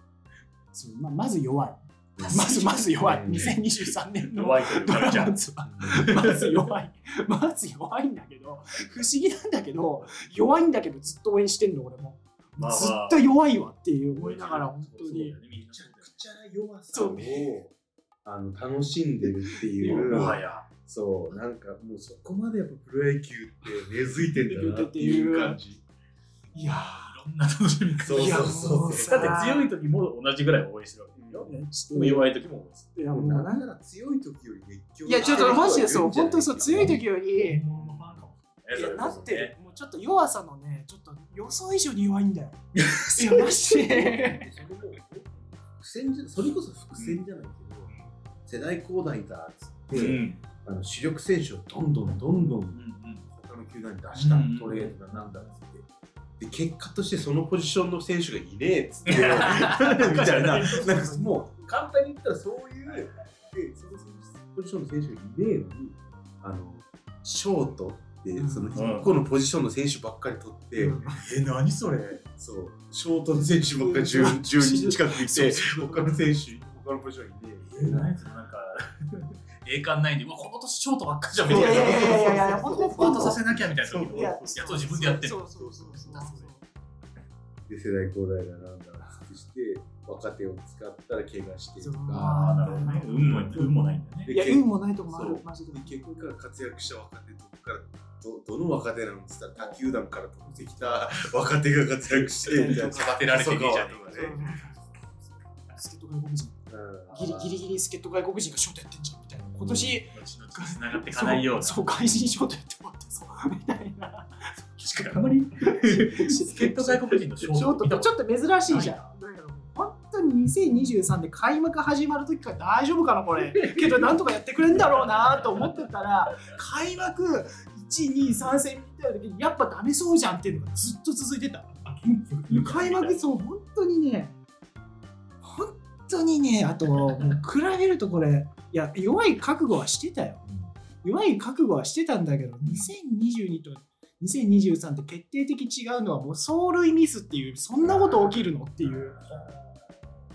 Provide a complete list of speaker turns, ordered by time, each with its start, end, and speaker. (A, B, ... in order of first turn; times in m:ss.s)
0:00.7-0:15.3 A
0:02.2-0:03.6 B
0:02.2-0:03.4 C
0:04.3-0:06.4 C
0:05.6-0:06.0 B
0:12.6-0:13.2 C
0:14.1-0:16.2 C
0:15.5-0:17.7 B
0:16.9-0:17.6 A
0:18.2-0:25.8 B
0:19.8-0:20.4 A
0:19.8-0:20.6 C
0:23.7-0:25.6 A
0:26.5-0:27.2 A
0:26.5-0:32.9 C
0:28.0-0:29.2 B
0:28.2-0:29.7 A
0:31.1-0:31.5 B
0:31.4-0:32.3 A
0:32.9-0:33.6 A
0:33.1-0:37.0 B
0:35.0-0:37.6 A
0:35.2-0:35.5 C
0:36.7-0:39.6 C
0:37.8-0:38.3 B
0:38.7-0:42.6 A
0:39.0-0:39.4 B
0:42.7-0:43.6 C
0:43.2-0:44.5 A
0:43.7-0:47.9 B
0:47.0-0:47.2 C
0:48.4-0:55.8 B
0:49.9-0:50.4 C
0:52.0-0:53.3 C
0:54.1-0:55.6 C
0:56.4-1:11.0 B
0:59.0-1:01.6 A
0:59.1-1:01.1 C
1:02.8-1:03.5 C
1:08.4-1:09.1 A
1:08.7-1:09.1 C
1:10.7-1:11.2 A
1:11.1-1:12.2 C
1:12.3-1:18.2 B
1:13.7-1:16.8 A
1:17.7-1:26.5 C
1:21.4-1:26.2 B
1:21.4-1:23.4 A
1:24.1-1:26.6 A
1:27.7-1:33.6 B
1:31.8-1:36.3 A
1:32.1-1:34.3 C
1:34.2-1:44.4 B
1:39.5-1:39.9 C
1:40.4-1:41.3 A
1:42.2-1:43.1 A
1:42.4-1:44.9 C
1:44.1-1:44.8 A
1:45.7-2:14.3 A
1:46.7-1:47.6 B
1:49.4-1:50.0 B
1:50.1-1:52.2 C
1:54.7-1:59.1 C
2:03.3-2:06.5 C
2:10.4-2:10.8 B
2:11.8-2:13.2 C
2:15.4-2:20.4 A
2:20.4-2:20.8 B
2:21.0-2:29.2 A
2:22.6-2:22.9 B
2:27.8-2:29.6 B
2:29.2-2:30.1 C